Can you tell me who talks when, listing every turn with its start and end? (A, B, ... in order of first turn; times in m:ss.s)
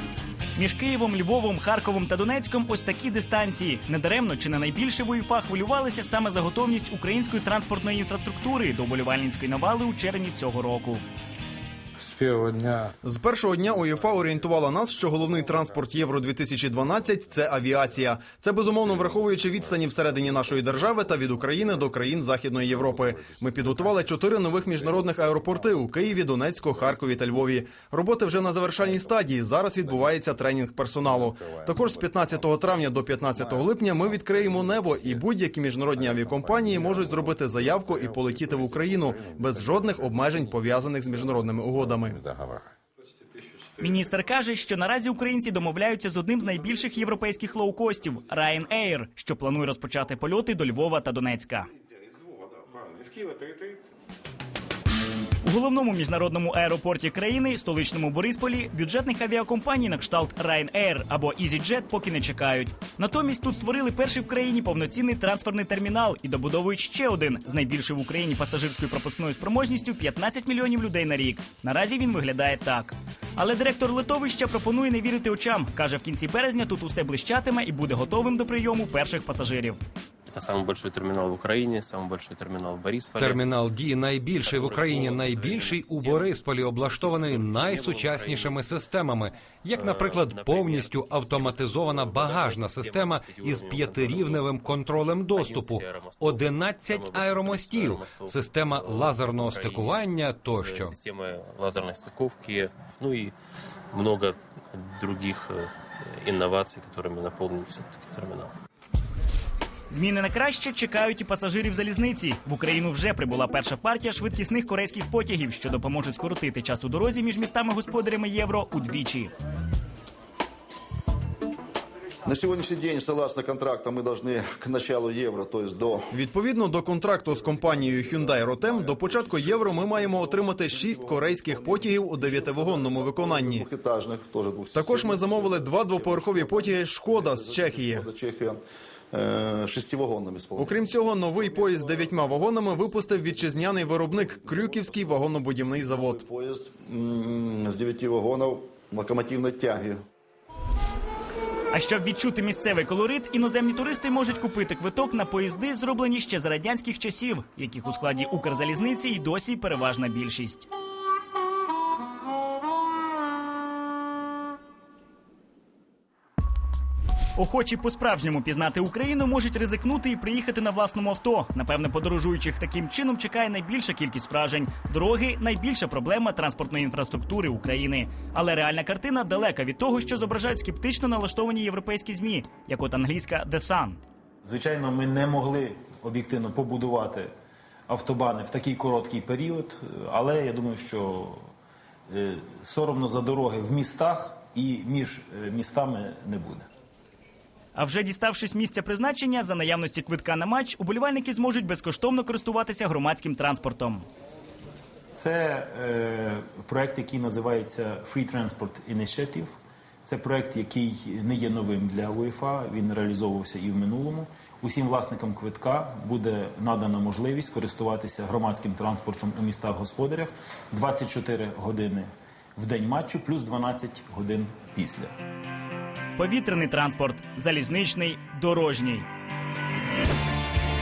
0:00.6-0:11.0 A
0:13.0-0:42.2 B
0:13.6-0:27.6 C
0:28.7-0:29.3 C
0:29.8-0:30.5 C
0:31.0-0:42.7 C
0:43.8-0:51.7 A
0:53.2-0:53.8 D
0:55.4-1:19.8 A
1:20.3-1:23.4 E
1:23.2-1:41.0 F
1:24.4-1:28.7 E
1:29.7-1:43.3 E
1:43.9-1:48.5 E
1:49.9-1:59.3 A
2:02.2-2:06.1 G
2:06.1-2:13.7 B
2:07.3-2:18.6 G
2:14.7-2:18.1 B
2:19.1-2:25.2 G
2:20.6-2:26.3 B
2:25.8-2:30.0 G
2:31.7-2:40.7 A
2:47.4-3:04.0 A
3:04.4-3:07.3 D
3:07.9-3:11.5 D
3:12.1-3:16.7 D
3:17.8-3:24.1 A
3:25.1-3:45.1 D
3:46.2-3:49.1 A